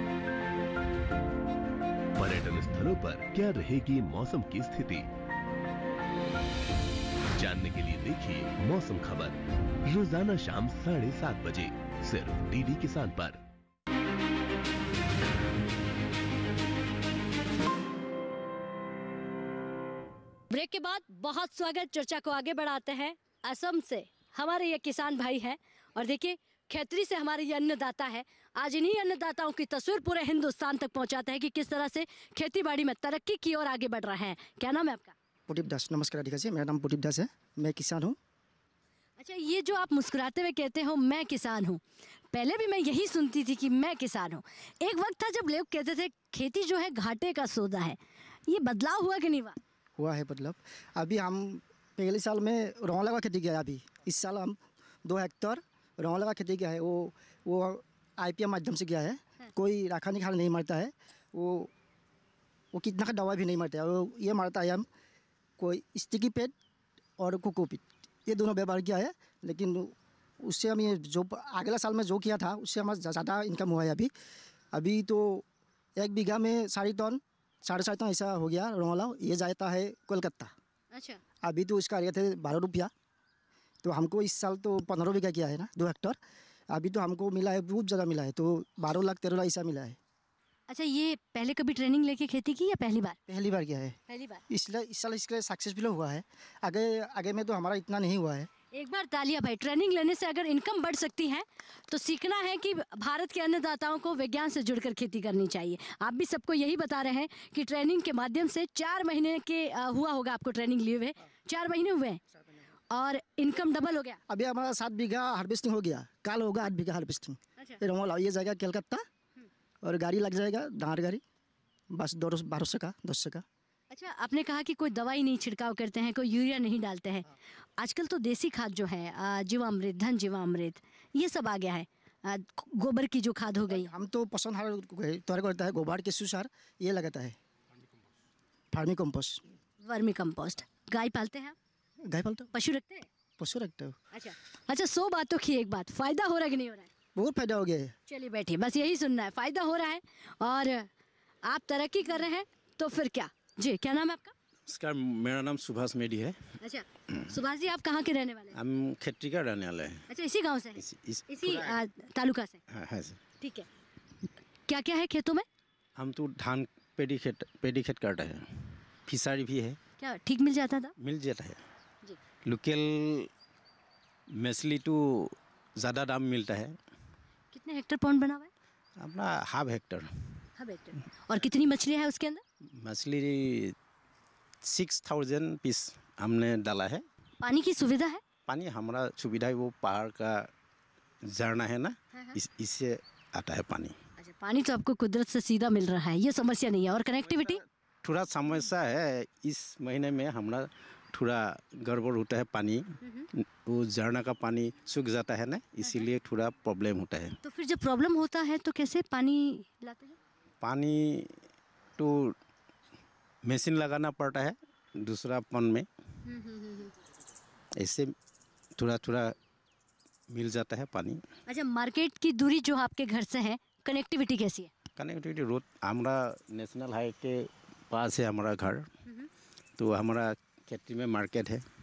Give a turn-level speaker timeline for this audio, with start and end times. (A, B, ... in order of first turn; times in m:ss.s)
0:02.2-0:05.1 A
0:07.3-0:13.4 A
0:20.5-0:35.1 B
0:35.5-0:38.2 C
0:39.2-0:49.6 B
0:50.0-1:01.7 C
1:02.7-1:04.9 C
1:05.6-1:06.5 C
1:07.2-1:14.1 C
1:14.7-1:15.4 C
1:16.0-1:20.5 C
1:20.9-1:21.2 B
1:21.4-1:22.9 C
1:23.8-1:26.2 C
1:26.7-1:30.0 C
1:30.7-1:33.2 B
1:33.3-1:34.0 C
1:34.1-1:34.4 B
1:34.5-1:38.5 C
1:38.7-1:52.2 B
1:52.9-1:54.2 B
1:54.3-1:59.0 C
1:59.8-2:01.2 C
2:01.9-2:03.4 C
2:03.9-2:07.2 B
2:07.8-2:13.9 B
2:13.7-2:17.4 C
2:18.7-2:19.4 C
2:19.8-2:21.5 B
2:22.0-2:22.5 C
2:22.5-2:23.0 B
2:23.4-2:23.9 C
2:24.1-2:26.9 B
2:27.2-2:27.9 C
2:28.1-2:30.9 B
2:31.4-2:34.3 B
2:34.7-2:36.4 D
2:36.6-2:38.5 B
2:38.5-2:40.0 D
2:40.1-2:42.6 B
2:40.8-2:41.8 D
2:42.7-2:43.2 D
2:43.4-2:43.7 B
2:44.7-2:45.4 B
2:46.0-2:49.8 D
2:50.0-2:50.9 B
2:51.0-2:51.6 D
2:52.4-2:53.3 D
2:54.3-2:56.8 D
2:57.5-2:58.5 B
2:59.0-3:00.4 D
3:00.6-3:02.4 B
3:02.7-3:03.7 D
3:04.6-3:07.0 D
3:07.4-3:08.2 B
3:08.5-3:10.5 D
3:11.3-3:14.0 D
3:14.2-3:17.6 B
3:17.3-3:27.4 D
3:27.4-3:30.2 B
3:30.6-3:31.4 D
3:32.0-3:32.4 D
3:33.4-3:35.9 D
3:36.2-3:36.9 B
3:37.8-3:38.1 D
3:38.8-3:39.4 D
3:40.3-3:41.2 D
3:41.5-3:44.7 B
3:45.0-3:48.9 D
3:49.8-3:51.6 D